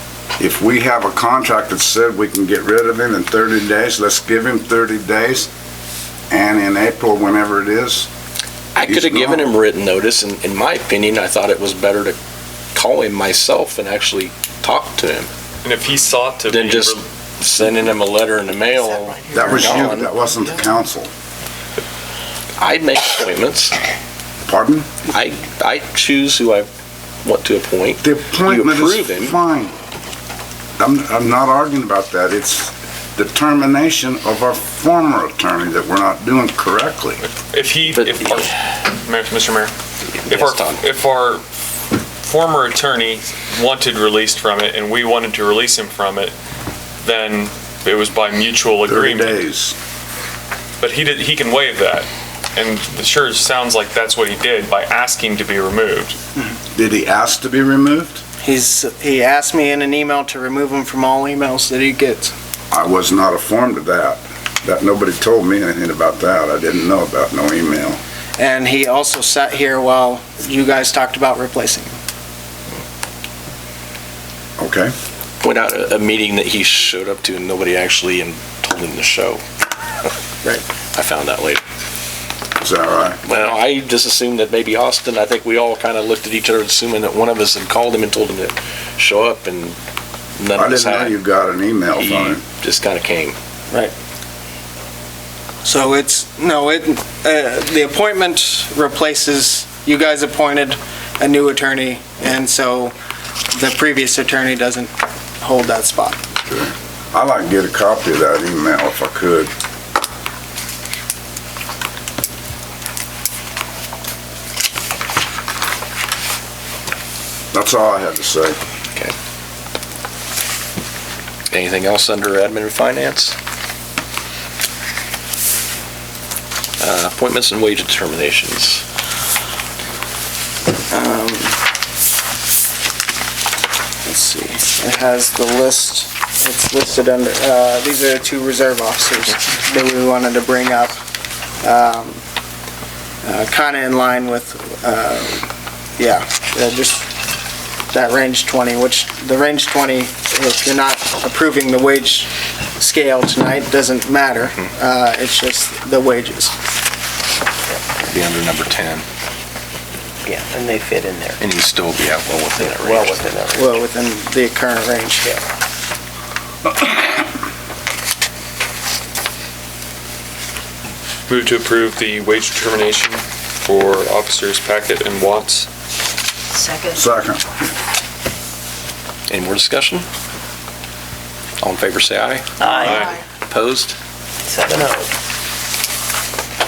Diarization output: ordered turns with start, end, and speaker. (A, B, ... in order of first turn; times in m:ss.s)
0:00.4-0:05.5 A
0:06.3-0:08.1 A
0:08.8-0:12.2 B
0:08.8-0:09.5 A
0:12.7-0:15.3 B
0:15.6-0:17.0 C
0:16.5-0:20.1 B
0:18.7-0:20.6 D
0:19.3-0:21.1 A
0:22.6-0:23.8 B
0:24.5-0:24.9 A
0:25.1-0:26.7 B
0:27.2-0:29.4 B
0:28.0-0:29.8 A
0:30.8-0:37.2 A
0:37.2-0:39.7 C
0:37.9-0:38.5 B
0:40.2-0:40.8 B
0:40.3-0:41.4 C
0:42.2-0:46.3 C
0:47.0-0:49.4 C
0:48.9-0:49.8 A
0:50.8-0:56.2 C
0:56.7-0:58.2 A
0:58.4-1:02.3 E
1:02.7-1:08.0 A
1:08.4-1:12.0 E
1:14.6-1:14.9 A
1:15.4-1:19.4 B
1:20.9-1:21.6 B
1:22.6-1:23.2 A
1:23.2-1:29.8 B
1:30.4-1:31.2 B
1:30.6-1:32.4 A
1:32.0-1:33.4 B
1:35.6-1:43.0 E
1:43.5-1:46.2 E
1:46.5-1:49.5 A
1:57.5-1:58.6 A
2:01.5-2:03.4 B
2:06.8-2:08.8 B
2:10.9-2:11.6 E
2:14.0-2:21.0 E
2:21.6-2:22.2 E
2:23.2-2:25.5 E
2:26.0-2:27.1 E
2:27.9-2:36.6 E
2:38.1-2:39.0 B
2:40.3-2:41.4 F
2:41.4-2:43.3 B
2:42.6-2:43.8 F
2:43.5-2:45.3 E
2:51.3-2:55.7 C
2:56.5-2:57.0 D
2:57.0-2:57.4 A
2:59.3-3:00.0 B
3:01.6-3:04.0 B
3:02.6-3:03.0 F
3:02.8-3:03.1 C
3:04.5-3:05.1 F